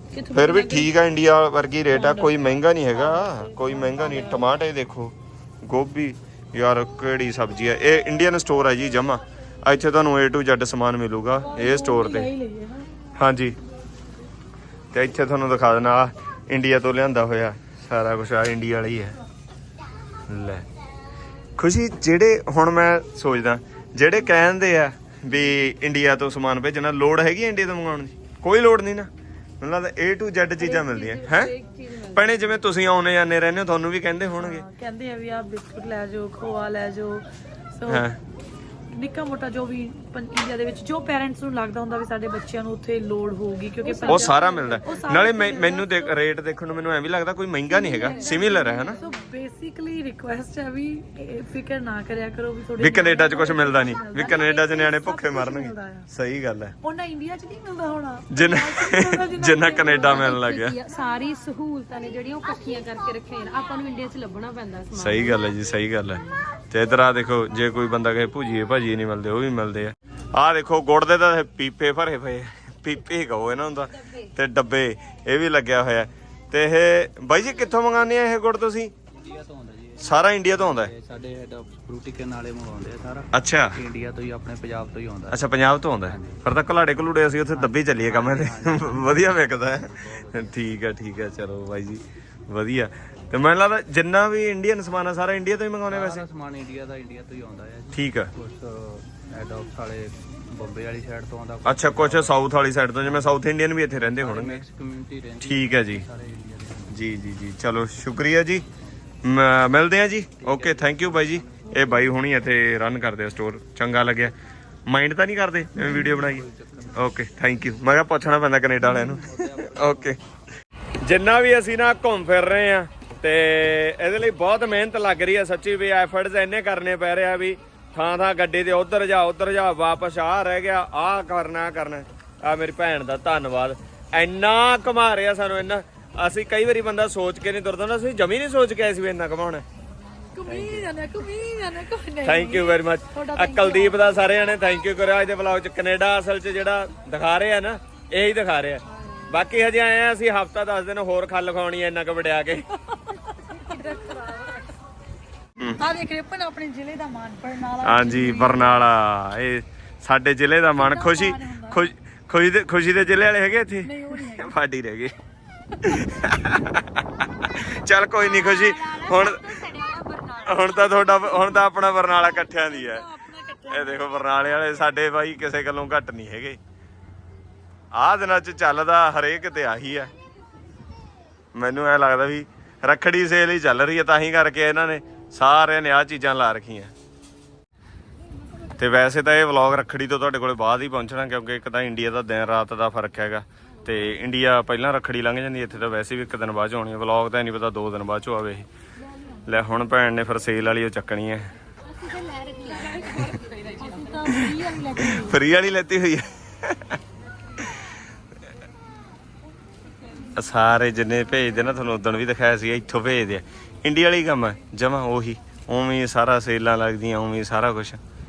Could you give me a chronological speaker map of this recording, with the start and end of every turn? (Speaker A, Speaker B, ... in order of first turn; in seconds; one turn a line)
Speaker A: 0.1-0.9
Speaker B: 0.3-12.3
Speaker A: 1.9-4.4
Speaker A: 11.4-12.9
Speaker B: 13.2-13.6
Speaker B: 14.9-19.1
Speaker B: 20.3-20.7
Speaker B: 21.6-29.1
Speaker B: 29.6-31.5
Speaker C: 30.6-32.5
Speaker B: 32.1-34.6
Speaker A: 34.4-38.1
Speaker B: 37.9-38.2
Speaker A: 38.9-46.1
Speaker C: 43.8-45.1
Speaker B: 44.1-49.0
Speaker A: 47.7-56.1
Speaker C: 47.9-49.1
Speaker B: 52.8-56.7
Speaker C: 54.1-54.4
Speaker A: 56.8-60.3
Speaker B: 58.3-60.8
Speaker C: 60.0-65.4
Speaker B: 64.9-78.9
Speaker C: 73.9-74.3
Speaker D: 79.1-85.4
Speaker B: 80.0-80.9
Speaker B: 83.3-83.8
Speaker B: 85.3-96.2
Speaker D: 86.1-86.4
Speaker D: 87.5-90.5
Speaker D: 95.9-102.4
Speaker B: 97.9-98.3
Speaker B: 101.6-104.6
Speaker D: 103.0-103.3
Speaker D: 104.0-106.9
Speaker B: 105.4-106.0
Speaker B: 106.9-108.6
Speaker B: 109.2-114.3
Speaker D: 110.4-112.1
Speaker B: 114.9-120.2
Speaker D: 115.8-117.1
Speaker D: 118.9-120.1
Speaker B: 121.0-139.6
Speaker A: 140.3-144.2
Speaker B: 140.5-140.8
Speaker B: 142.2-152.6
Speaker A: 148.9-149.3
Speaker A: 153.1-154.6
Speaker C: 153.5-154.7
Speaker B: 155.6-155.8
Speaker A: 155.8-158.9
Speaker B: 157.8-165.1
Speaker A: 160.7-161.9
Speaker A: 163.8-164.5
Speaker B: 165.8-169.6
Speaker C: 168.2-171.6
Speaker B: 170.4-173.0
Speaker A: 172.4-174.4
Speaker B: 173.7-176.6
Speaker B: 177.9-180.1
Speaker B: 181.5-186.9
Speaker B: 188.8-198.7
Speaker B: 199.4-201.5
Speaker C: 201.8-205.1
Speaker A: 202.7-205.3
Speaker B: 204.3-207.0
Speaker B: 210.3-218.0